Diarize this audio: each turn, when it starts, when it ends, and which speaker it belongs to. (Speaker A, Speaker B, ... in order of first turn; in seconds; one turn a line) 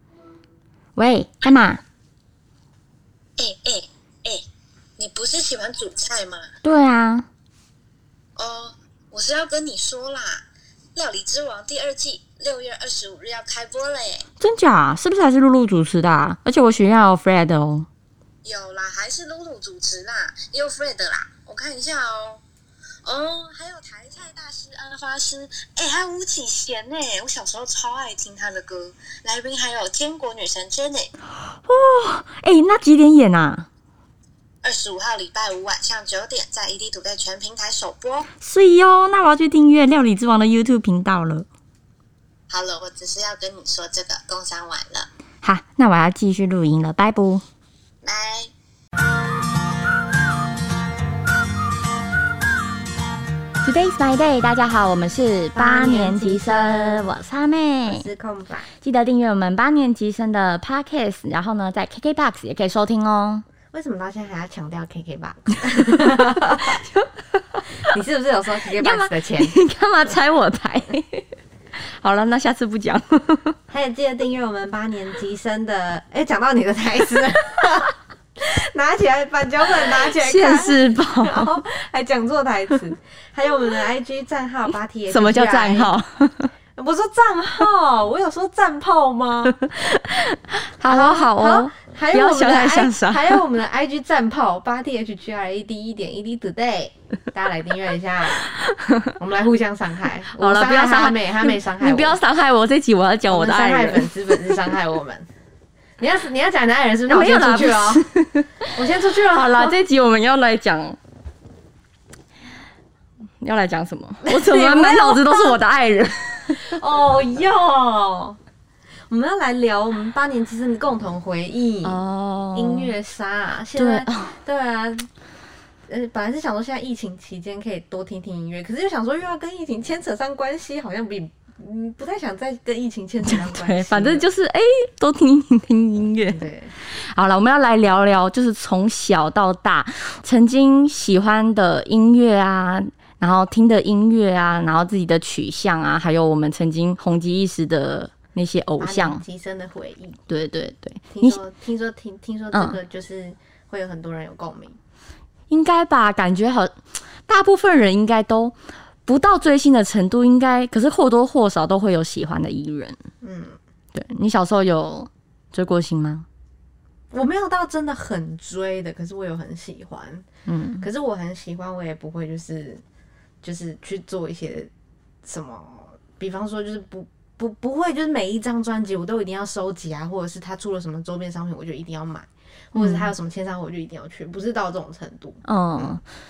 Speaker A: 1.0-1.8
Speaker B: 3.4-4.4
Speaker B: 5.0-6.5
Speaker A: 6.6-7.3
Speaker B: 8.4-10.4
Speaker B: 10.9-14.3
Speaker A: 14.4-17.9
Speaker B: 18.4-22.4
Speaker B: 23.0-31.1
Speaker A: 31.5-33.7
Speaker B: 34.6-38.3
Speaker A: 38.4-41.5
Speaker B: 42.5-45.1
Speaker A: 45.4-47.4
Speaker B: 48.0-48.5
Speaker A: 53.6-58.0
Speaker C: 55.5-57.1
Speaker C: 57.9-58.7
Speaker A: 58.8-63.4
Speaker C: 63.7-66.8
Speaker A: 66.6-67.8
Speaker C: 67.8-69.6
Speaker A: 68.8-71.3
Speaker A: 72.0-73.6
Speaker C: 73.7-85.9
Speaker A: 80.2-81.5
Speaker A: 85.1-86.5
Speaker C: 86.8-89.6
Speaker A: 89.5-93.4
Speaker C: 90.9-98.6
Speaker A: 98.6-99.1
Speaker C: 99.2-102.2
Speaker A: 100.4-104.6
Speaker C: 103.3-105.3
Speaker C: 106.0-108.1
Speaker A: 107.1-111.0
Speaker C: 108.8-109.8
Speaker A: 113.4-116.8
Speaker C: 114.2-115.6
Speaker C: 116.5-118.4
Speaker C: 119.1-122.0
Speaker A: 121.8-122.9
Speaker C: 122.5-125.1
Speaker A: 123.8-124.4
Speaker C: 125.9-134.3
Speaker A: 133.2-149.2
Speaker C: 136.3-136.7
Speaker C: 148.8-150.2
Speaker A: 150.3-151.4
Speaker C: 151.1-154.8
Speaker A: 155.5-156.8
Speaker A: 157.3-163.0
Speaker C: 163.2-163.6
Speaker A: 163.9-166.3
Speaker C: 167.1-170.3
Speaker A: 170.5-170.8
Speaker C: 170.8-172.8
Speaker C: 173.4-174.7
Speaker C: 175.2-186.0
Speaker A: 182.7-183.1
Speaker A: 185.4-186.0